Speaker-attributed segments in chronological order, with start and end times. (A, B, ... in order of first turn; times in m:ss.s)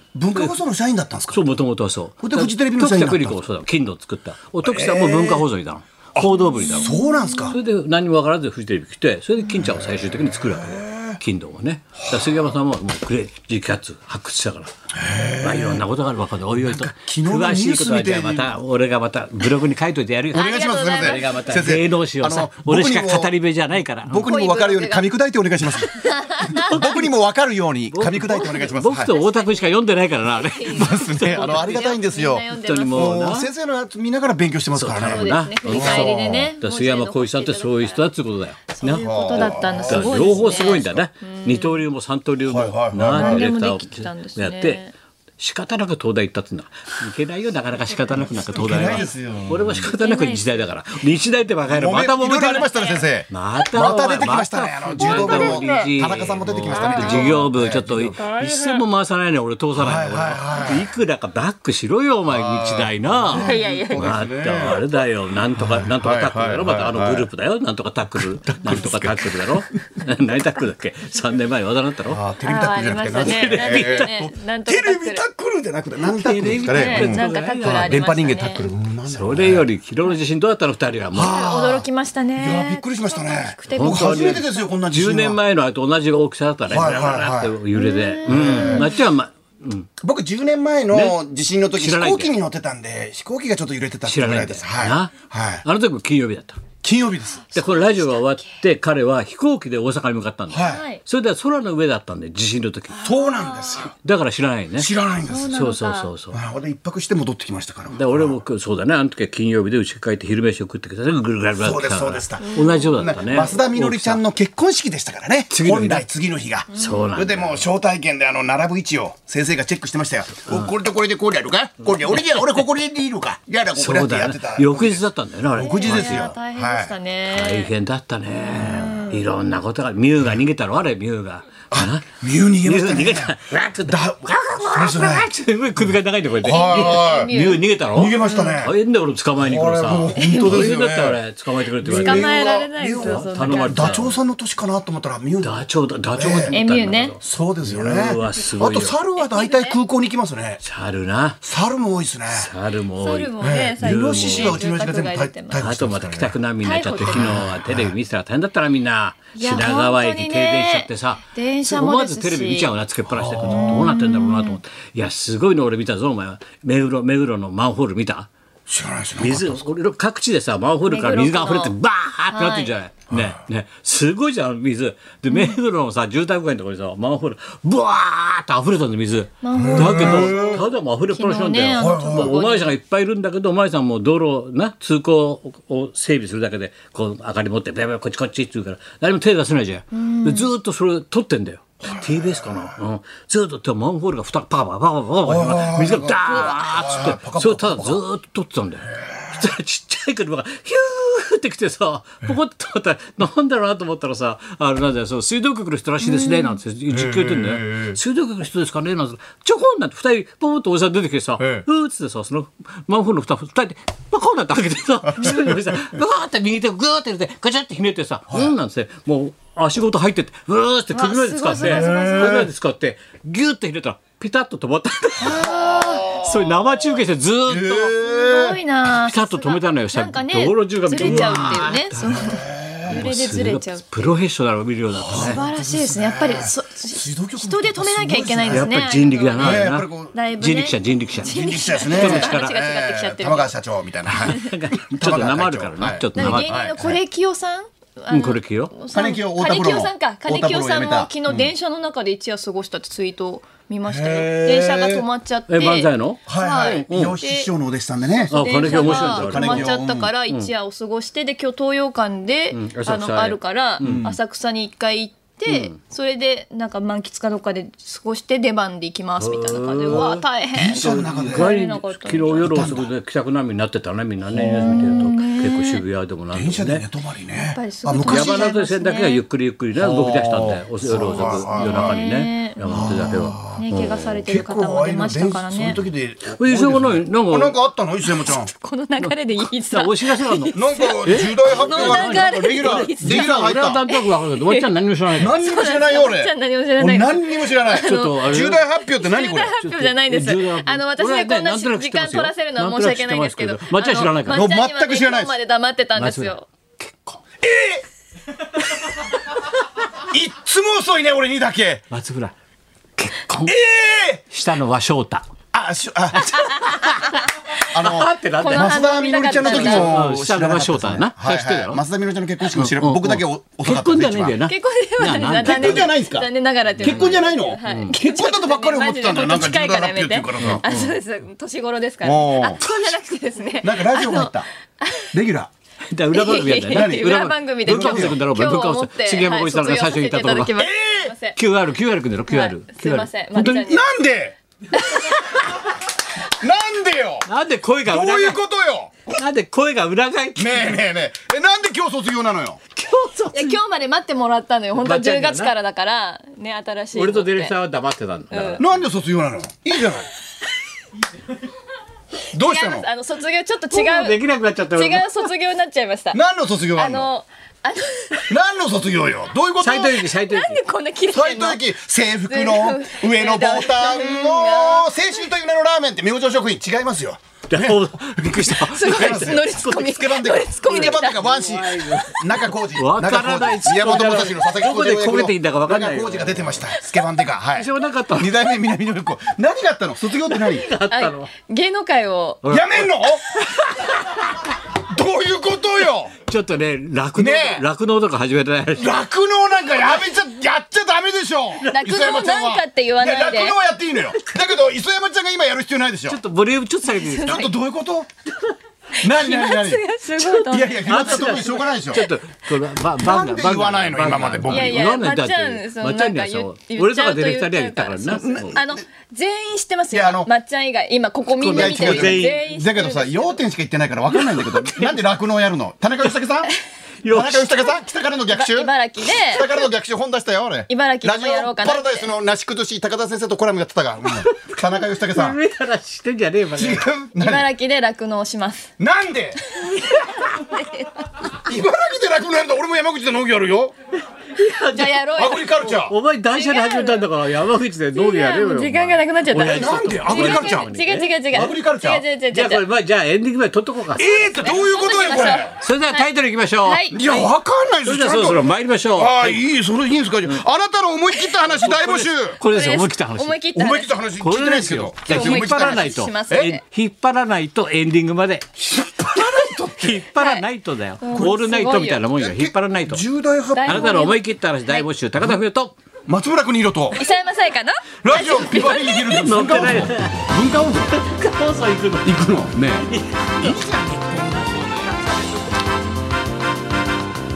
0:00.1-0:01.5 A
0:00.3-0:00.6 B
0:01.3-0:07.0 B
0:02.2-0:03.4 A
0:04.6-0:05.4 A
0:06.1-0:07.6 A
0:06.6-0:07.6 C
0:07.5-0:14.7 B
0:09.6-0:11.2 A
0:12.0-0:12.5 A
0:15.0-0:15.8 A
0:15.4-0:24.3 B
0:16.6-0:18.5 A
0:20.3-0:23.3 A
0:20.3-0:21.6 C
0:24.0-0:29.1 A
0:24.2-0:25.1 C
0:25.8-0:27.0 C
0:26.6-0:27.0 B
0:27.9-0:31.8 B
0:28.4-0:33.2 C
0:30.7-0:36.5 A
0:32.6-0:33.5 B
0:34.7-0:44.8 B
0:35.0-0:38.1 C
0:38.7-0:41.8 C
0:38.8-0:41.0 A
0:42.4-0:43.5 A
0:43.1-0:44.9 C
0:45.4-0:52.7 B
0:48.2-0:49.9 A
0:48.4-0:49.1 C
0:49.8-0:50.6 C
0:51.7-0:58.2 A
0:52.7-0:53.0 C
0:53.3-1:12.2 B
0:55.0-0:55.8 C
0:56.7-0:57.5 C
0:58.2-0:58.8 C
0:59.7-1:00.9 A
1:02.3-1:04.8 A
1:03.3-1:04.1 C
1:05.5-1:07.3 A
1:08.2-1:09.8 A
1:12.1-1:19.6 A
1:12.4-1:15.2 C
1:13.2-1:14.3 B
1:16.0-1:18.1 B
1:16.6-1:18.7 C
1:19.1-1:21.5 B
1:21.1-1:25.4 A
1:21.2-1:24.7 C
1:23.7-1:29.9 B
1:26.7-1:27.6 A
1:27.7-1:29.0 C
1:28.2-1:28.9 A
1:30.0-1:35.6 A
1:30.9-1:32.3 B
1:34.0-1:35.1 B
1:35.6-1:36.6 B
1:36.8-1:37.4 A
1:37.5-1:38.4 C
1:37.5-1:43.0 B
1:40.5-1:40.8 A
1:40.6-1:41.0 C
1:42.9-1:43.9 C
1:43.0-1:43.9 A
1:43.9-1:44.9 B
1:44.8-1:45.7 A
1:45.2-1:46.1 C
1:45.5-1:46.4 B
1:46.3-1:48.4 A
1:47.9-1:54.2 B
1:51.6-2:06.9 A
1:52.4-1:53.6 C
1:55.5-1:56.0 B
1:56.7-1:57.1 C
1:56.7-1:57.6 B
2:00.4-2:00.7 B
2:02.1-2:02.6 B
2:03.7-2:06.3 B
2:05.6-2:07.7 C
2:07.3-2:12.1 B
2:08.5-2:09.0 A
2:08.5-2:09.2 C
2:11.7-2:15.3 A
2:12.6-2:24.1 B
2:16.4-2:17.6 C
2:16.4-2:17.3 A
2:17.9-2:18.7 A
2:18.2-2:18.6 C
2:19.4-2:21.2 A
2:20.2-2:20.7 C
2:21.8-2:25.6 A
2:21.8-2:24.1 C
2:25.4-2:29.0 B
2:26.1-2:26.6 A
2:26.5-2:27.2 C
2:27.2-2:30.6 A
2:29.1-2:29.8 C
2:30.6-2:31.4 B
2:31.4-2:32.5 A
2:32.3-2:34.6 B
2:33.0-2:35.6 C
2:33.4-2:36.4 A
2:35.6-2:48.3 B
2:36.6-2:37.4 C
2:37.0-2:37.9 A
2:39.4-2:42.7 C
2:43.1-2:43.9 A
2:43.4-2:44.6 C
2:48.7-2:49.6 A
2:49.2-3:45.5 B
2:50.8-2:51.7 C
2:52.3-2:52.7 C
2:55.3-2:55.6 C
2:59.4-3:02.7 C
2:59.5-3:00.6 A
3:01.7-3:02.4 A
3:09.9-3:10.5 C
3:11.9-3:12.7 A
3:15.2-3:18.0 A
3:18.9-3:19.4 A
3:26.0-3:26.6 C
3:26.9-3:28.0 A
3:31.4-3:31.6 A
3:35.2-3:35.9 A
3:40.9-3:42.5 C
3:41.5-3:42.5 A
3:45.2-3:46.2 C
3:45.2-3:46.7 A
3:46.0-3:48.0 B
3:47.5-3:48.6 A
3:48.0-3:54.1 C
3:48.8-3:52.3 B
3:51.0-3:53.0 A
3:52.9-3:55.4 B
3:54.9-3:58.8 A
3:55.1-4:03.5 C
3:58.5-4:02.5 B
3:59.4-4:00.2 A
4:01.2-4:06.9 A
4:04.1-4:07.0 B
4:06.1-4:17.5 C
4:08.1-4:08.7 B
4:08.9-4:11.5 A
4:13.8-4:15.0 A
4:15.5-4:17.2 B
4:16.3-4:20.1 A
4:18.1-4:32.8 C
4:18.3-4:19.7 B
4:22.5-4:24.1 B
4:23.8-4:24.2 A
4:25.5-4:25.8 B
4:29.2-4:30.2 B
4:30.5-4:31.5 A
4:30.8-4:36.8 B
4:32.4-4:32.9 A
4:34.3-4:35.1 A
4:34.4-4:35.8 C
4:36.3-4:38.5 A
4:37.4-4:39.2 C
4:38.1-4:44.1 B
4:39.8-4:42.0 A
4:40.9-4:45.8 C
4:42.6-4:43.7 A
4:44.2-4:48.5 A
4:46.4-4:47.6 B
4:48.0-4:54.7 C
4:49.0-4:55.4 B
4:50.5-4:53.8 A
4:55.2-4:59.6 A
4:55.4-5:06.4 C
4:57.7-4:58.6 B
4:59.6-5:04.4 B
5:04.3-5:05.3 A
5:06.0-5:07.2 B
5:07.4-5:07.8 A
5:10.0-5:11.8 A
5:11.9-5:12.3 B
5:13.0-5:13.6 B
5:13.4-5:14.2 A
5:14.3-5:15.3 B
5:15.5-5:16.8 A
5:16.1-5:21.8 B
5:16.4-5:17.2 C
5:17.6-5:24.4 A
5:18.4-5:20.1 C
5:22.5-5:25.9 B
5:24.4-5:35.1 C
5:25.4-5:30.6 A
5:26.8-5:27.1 B
5:27.6-5:27.9 B
5:30.4-5:30.9 B
5:32.0-5:32.6 A
5:33.6-5:34.5 A
5:35.1-5:35.5 A
5:35.9-5:40.6 B
5:36.1-5:41.4 C
5:36.7-5:38.2 A
5:40.6-5:41.1 A
5:41.3-5:43.6 B
5:42.3-5:43.9 C
5:43.4-5:44.4 A
5:44.7-5:45.3 C
5:46.2-5:47.2 A
5:47.3-5:48.4 B
5:47.9-5:48.9 A
5:49.1-5:50.8 B
5:50.4-5:52.6 A
5:52.8-5:53.6 B
5:53.3-5:57.6 C
5:54.7-5:55.5 B
5:56.9-5:58.7 B
5:58.3-5:58.6 C
5:58.6-6:00.1 A
6:02.3-6:02.9 A
6:02.3-6:06.2 C
6:03.7-6:05.3 B
6:06.1-6:07.1 A
6:06.7-6:08.4 C
6:08.3-6:10.0 A
6:09.6-6:10.6 B
6:09.9-6:11.6 C
6:11.1-6:30.7 A
6:12.3-6:15.1 C
6:17.5-6:19.4 B
6:18.7-6:21.3 C
6:20.7-6:26.6 B
6:27.6-6:28.3 B
6:30.3-6:31.3 B
6:30.9-6:32.4 C
6:32.4-6:34.4 B
6:32.5-6:33.4 A
6:34.7-6:36.1 A
6:36.2-6:39.0 B
6:37.2-6:37.6 A
6:38.8-6:46.2 A
6:41.7-6:43.6 C
6:44.2-6:44.4 B
6:46.1-6:47.5 B
6:46.8-6:47.5 C
6:47.2-6:48.1 A
6:49.0-6:51.4 C
6:49.0-6:52.1 A
6:50.8-6:58.6 B
6:53.0-6:54.9 A
6:53.2-6:53.5 C
6:54.4-7:03.4 C
6:58.1-6:58.8 A
6:59.9-7:00.3 A
7:01.4-7:06.5 A
7:01.4-7:02.4 B
7:04.1-7:05.0 B
7:07.0-7:07.7 B
7:07.1-7:15.4 A
7:08.3-7:09.7 C
7:10.7-7:12.1 C
7:14.1-7:16.8 B
7:16.5-7:17.5 A
7:17.2-7:18.7 C
7:18.8-7:19.4 A
7:19.5-7:21.3 C
7:21.4-7:23.7 A
7:24.2-7:25.1 B
7:24.6-7:25.6 C
7:25.1-7:26.0 A
7:25.6-7:31.1 B
7:26.3-7:27.1 C
7:27.9-7:32.7 C
7:29.4-7:30.7 A
7:31.3-7:32.0 A
7:32.3-7:34.5 B
7:34.0-7:35.5 A
7:34.1-7:37.1 C
7:35.6-7:37.3 B
7:36.9-7:42.4 A
7:37.8-7:39.4 B
7:41.5-7:43.4 B
7:42.4-7:44.0 C
7:43.5-7:46.6 A
7:44.2-7:53.0 B
7:45.0-7:46.6 C
7:48.6-7:50.0 A
7:50.1-7:50.4 C
7:51.0-7:52.0 C
7:52.2-7:54.0 A
7:53.5-7:54.8 C
7:53.6-7:55.7 B
7:56.1-7:57.0 A
7:56.9-7:59.3 C
7:58.0-8:01.0 A
7:59.1-8:02.2 B
8:02.0-8:05.2 A
8:02.7-8:04.9 B